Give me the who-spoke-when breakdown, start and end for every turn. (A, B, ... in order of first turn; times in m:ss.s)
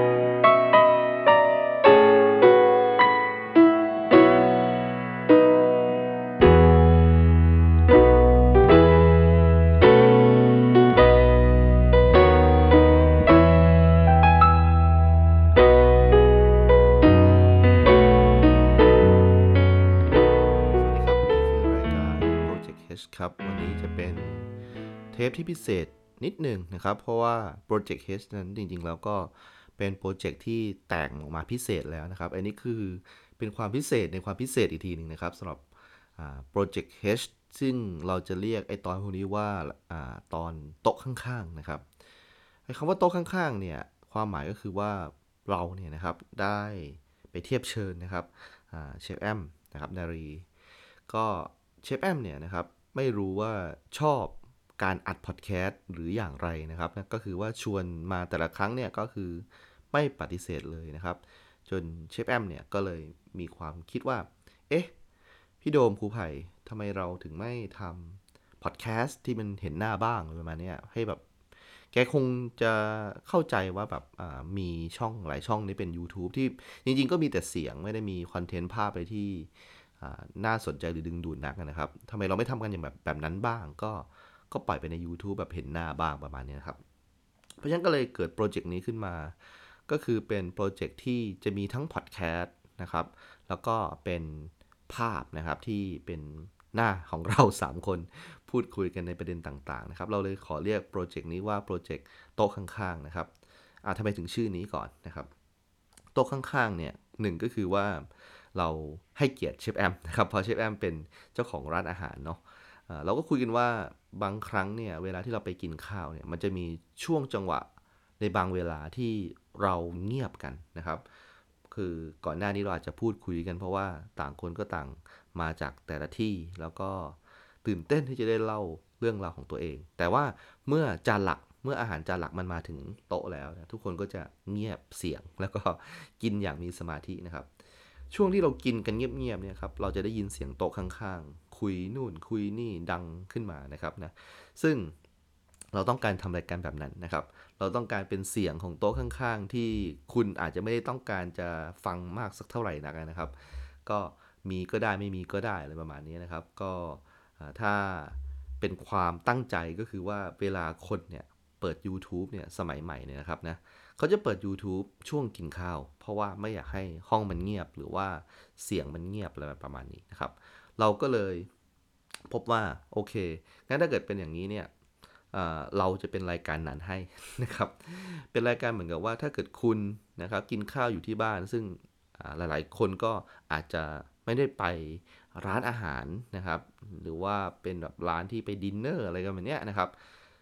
0:20.8-0:24.5 A
0:25.1-0:35.6 A
0:36.2-0:41.8 A
0:42.7-0:50.5 A
0:51.1-1:04.9 A
1:05.6-1:11.2 A
1:11.9-1:26.8 A
1:27.6-1:29.4 A
1:29.9-1:43.3 A
1:43.8-1:45.3 A
1:46.2-1:57.7 A
1:58.2-2:01.0 A
2:01.7-2:17.5 A
2:18.1-2:25.0 A
2:25.7-2:33.3 A
2:33.8-2:51.5 A
2:52.3-2:54.7 A
2:55.3-3:09.9 A